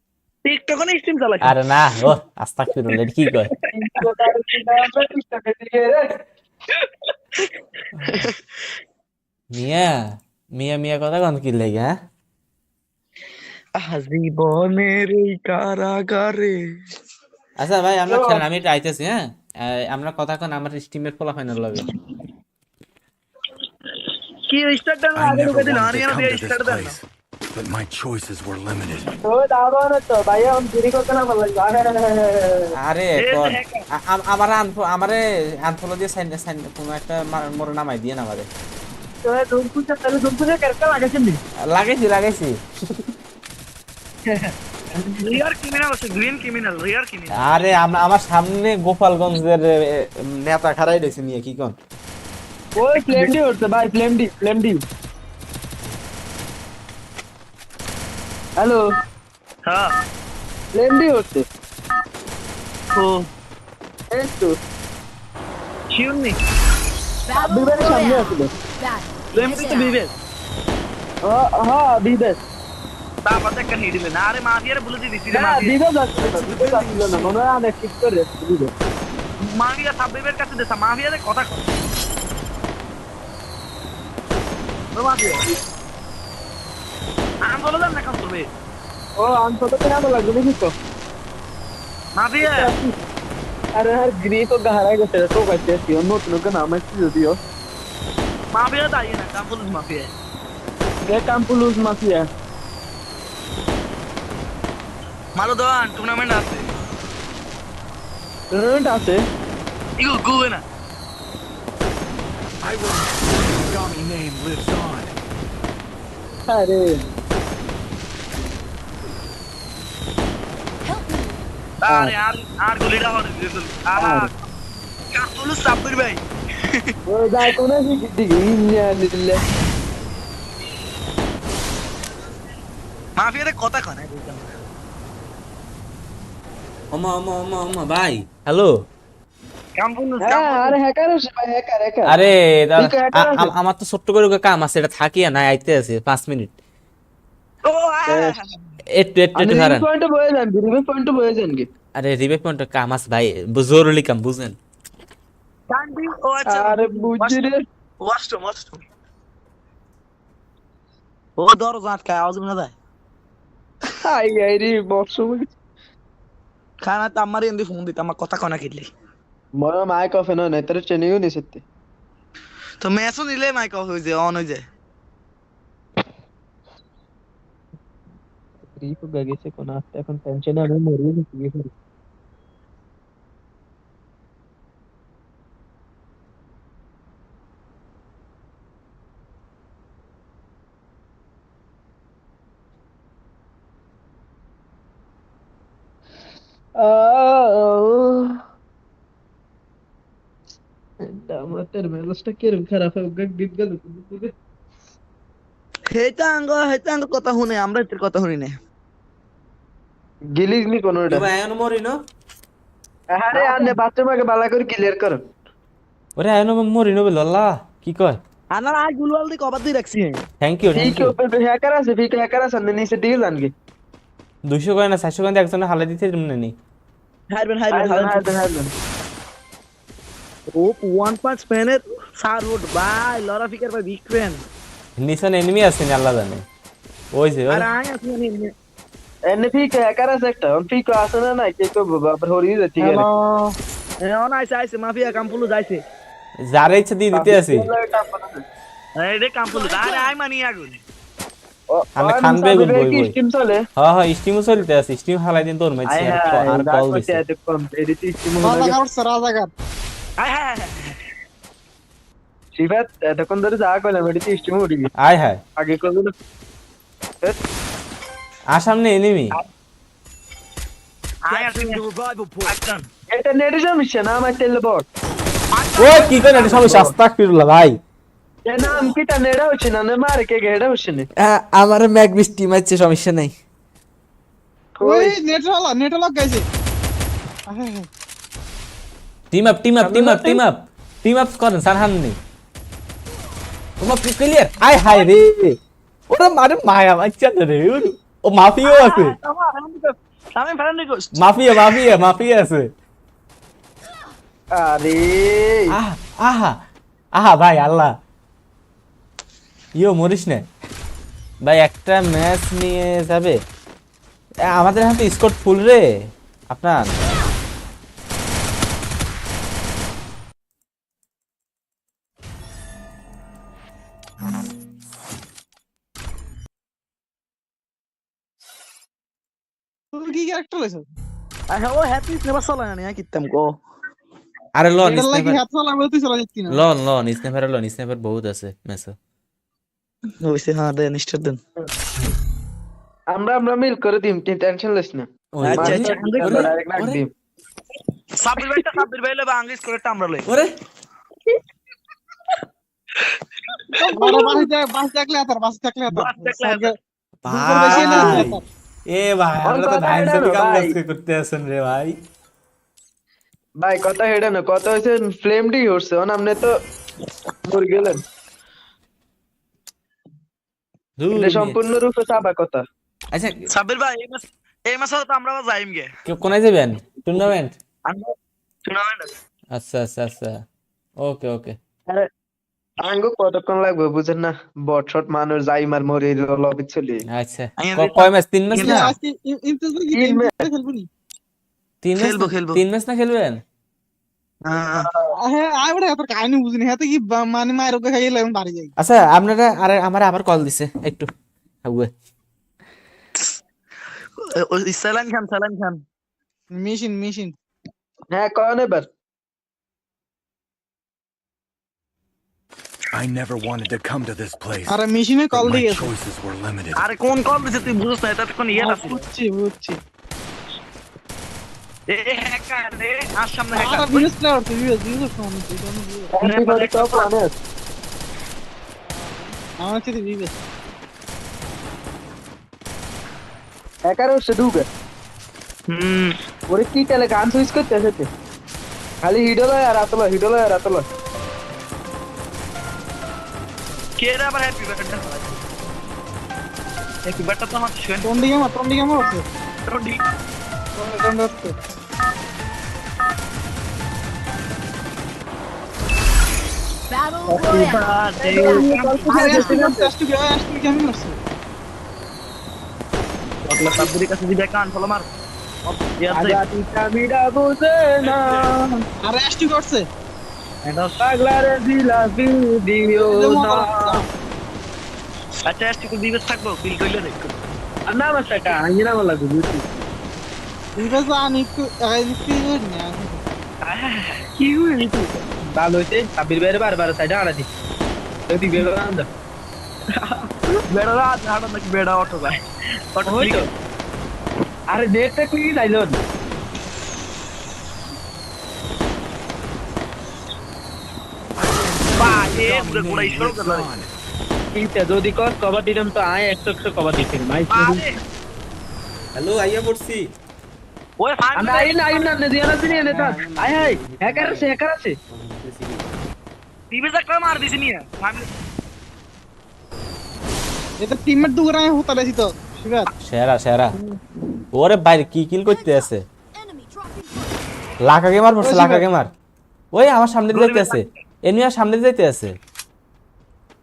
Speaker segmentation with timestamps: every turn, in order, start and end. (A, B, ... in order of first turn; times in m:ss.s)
0:00.4-0:02.1 A
0:01.4-0:03.5 B
0:03.7-0:06.2 C
0:09.5-0:11.9 B
0:13.8-0:16.8 A
0:17.6-0:21.8 B
0:18.1-0:18.4 C
0:24.0-0:27.0 A
0:25.2-0:27.0 D
0:27.5-0:29.2 D
0:29.2-0:32.7 C
0:32.7-0:38.5 B
0:33.2-0:33.8 A
0:39.2-0:41.4 C
0:41.7-0:43.1 B
0:44.3-0:45.4 C
0:45.2-0:47.5 A
0:47.4-0:51.8 B
0:52.8-0:54.8 C
0:52.8-0:53.3 A
0:59.6-0:59.9 A
1:00.7-1:01.4 C
1:03.0-1:03.3 A
1:04.1-1:04.6 C
1:05.9-1:06.4 A
1:07.3-1:10.0 E
1:07.4-1:08.5 C
1:09.3-1:10.1 A
1:11.2-1:12.4 C
1:13.2-1:15.7 A
1:15.3-1:18.7 C
1:16.2-1:17.3 D
1:19.4-1:21.7 A
1:25.0-1:25.4 A
1:27.4-1:28.5 A
1:29.2-1:30.7 C
1:32.2-1:32.7 A
1:32.4-1:32.9 C
1:33.8-1:37.4 C
1:38.5-1:40.1 A
1:41.0-1:42.3 C
1:45.4-1:46.7 A
1:48.5-1:49.2 C
1:50.0-1:50.6 A
1:52.6-1:55.2 D
1:56.5-1:57.0 C
2:00.8-2:01.4 E
2:01.8-2:04.3 A
2:01.9-2:02.1 C
2:04.0-2:04.3 C
2:05.1-2:06.9 A
2:07.1-2:09.4 C
2:13.2-2:14.5 A
2:16.9-2:18.8 B
2:19.8-2:20.8 A
2:20.2-2:22.2 C
2:22.1-2:26.5 B
2:22.8-2:23.5 C
2:27.6-2:28.6 A
2:28.1-2:28.4 C
2:28.9-2:29.8 B
2:29.3-2:31.7 C
2:32.0-2:34.6 B
2:35.7-2:37.5 A
2:36.4-2:37.6 C
2:38.0-2:38.8 A
2:41.4-2:42.7 A
2:44.0-2:45.5 C
2:46.8-2:48.9 A
2:49.6-2:51.6 C
2:52.8-2:54.6 A
2:58.7-3:01.7 C
3:16.8-3:18.4 C
3:21.0-3:24.3 C
3:25.9-3:28.5 A
3:30.3-3:31.3 C
3:31.1-3:32.0 B
3:33.1-3:35.2 C
3:33.4-3:33.7 A
3:36.2-3:38.2 B
3:38.5-3:40.2 A
3:40.4-3:41.1 B
3:40.8-3:43.5 C
3:44.4-3:46.5 B
3:47.3-3:48.3 A
3:47.7-3:48.7 C
3:50.5-3:54.4 A
3:55.0-3:56.4 B
3:57.1-3:57.6 B
3:57.5-3:58.5 A
3:59.3-4:03.1 C
4:02.8-4:03.5 F
4:04.0-4:05.8 A
4:06.5-4:07.7 B
4:07.1-4:08.4 C
4:09.0-4:10.8 A
4:09.5-4:10.1 E
4:11.7-4:13.6 C
4:12.0-4:13.1 B
4:13.8-4:17.2 B
4:15.9-4:18.8 C
4:18.4-4:19.5 F
4:20.2-4:21.0 A
4:22.6-4:24.9 C
4:25.0-4:25.4 B
4:25.6-4:26.1 C
4:28.5-4:29.3 B
4:31.3-4:31.8 A
4:31.3-4:32.6 D
4:32.4-4:32.9 A
4:33.1-4:34.9 C
4:35.5-4:36.8 A
4:35.8-4:37.8 B
4:36.3-4:36.9 C
4:38.5-4:41.1 C
4:41.2-4:43.3 B
4:44.8-4:45.2 C
4:44.8-4:46.4 F
4:47.5-4:47.9 F
4:49.3-4:52.2 B
4:49.8-4:50.2 A
4:53.8-4:55.6 B
4:56.1-4:59.2 B
4:58.6-5:01.8 A
5:01.2-5:02.7 B
5:04.5-5:05.7 C
5:05.7-5:06.6 B
5:07.1-5:07.9 B
5:09.8-5:10.4 B
5:11.4-5:13.4 B
5:14.5-5:15.9 B
5:16.5-5:16.9 B
5:29.9-5:30.9 F
5:31.5-5:33.6 A
5:34.6-5:35.4 B
5:34.8-5:36.6 F
5:36.5-5:39.0 B
5:40.2-5:41.4 A
5:43.1-5:47.1 C
5:45.3-5:47.0 B
5:45.4-5:46.5 A
5:48.2-5:50.2 A
5:53.6-5:54.4 A
5:53.8-5:56.8 F
5:55.9-5:56.8 A
5:57.2-5:58.4 B
5:57.3-5:58.4 F
5:57.8-5:58.3 C
5:58.9-6:02.0 B
5:59.4-6:00.8 C
6:03.6-6:06.6 C
6:07.4-6:08.0 C
6:11.0-6:11.6 B
6:11.1-6:12.6 C
6:13.1-6:13.5 B
6:13.5-6:15.9 A
6:16.1-6:17.6 B
6:17.9-6:18.1 A
6:18.6-6:19.1 A
6:19.5-6:20.4 B
6:21.0-6:21.6 B
6:22.8-6:27.0 C
6:27.1-6:28.9 B
6:27.6-6:28.8 A
6:28.6-6:30.9 F
6:29.9-6:30.5 C
6:31.8-6:33.4 B
6:32.0-6:32.6 A
6:34.4-6:34.9 A
6:35.1-6:38.7 F
6:38.8-6:41.1 B
6:41.6-6:41.9 B
6:44.2-6:45.8 A
6:46.5-6:47.3 F
6:48.1-6:48.9 C
6:52.9-6:56.8 D
6:54.7-6:55.9 F
6:56.8-6:59.0 A
6:58.5-6:59.8 F
7:01.9-7:04.1 A
7:03.5-7:06.1 F
7:06.1-7:07.3 C
7:06.2-7:07.1 A
7:08.9-7:10.3 F
7:13.9-7:14.6 C
7:15.7-7:16.2 A
7:16.5-7:18.1 C
7:19.0-7:20.9 C
7:24.0-7:25.4 A
7:27.0-7:28.1 A
7:28.0-7:29.2 F
7:29.7-7:30.0 A
7:30.8-7:31.5 F
7:36.9-7:39.6 E
7:37.3-7:39.1 A
7:38.2-7:39.9 C
7:39.1-7:41.2 F
7:43.4-7:45.1 A
7:46.0-7:46.4 A
7:46.1-7:48.8 C
7:48.0-7:48.4 A
7:49.0-7:49.9 F
7:50.6-7:51.0 A
7:51.0-7:54.0 C
7:53.0-7:54.1 F
7:55.4-7:57.3 A
7:57.9-7:59.6 C
8:00.8-8:03.2 F
8:03.6-8:05.2 A
8:05.6-8:07.5 C
8:08.3-8:09.1 C
8:10.7-8:12.4 A
8:12.9-8:13.5 A
8:13.0-8:13.5 C
8:14.7-8:16.0 C
8:21.4-8:23.9 D
8:22.0-8:23.7 A
8:24.6-8:27.8 C
8:27.5-8:28.0 A
8:29.1-8:30.1 B
8:31.0-8:32.2 A
8:31.4-8:35.0 C
8:32.7-8:34.5 B
8:35.1-8:35.8 B
8:36.7-8:38.3 A
8:40.8-8:42.9 F
8:43.0-8:43.8 B
8:44.5-8:46.0 B
8:45.5-8:47.6 E
8:47.8-8:49.1 B
8:48.4-8:48.8 F
8:49.7-8:52.4 B
8:50.3-8:50.9 A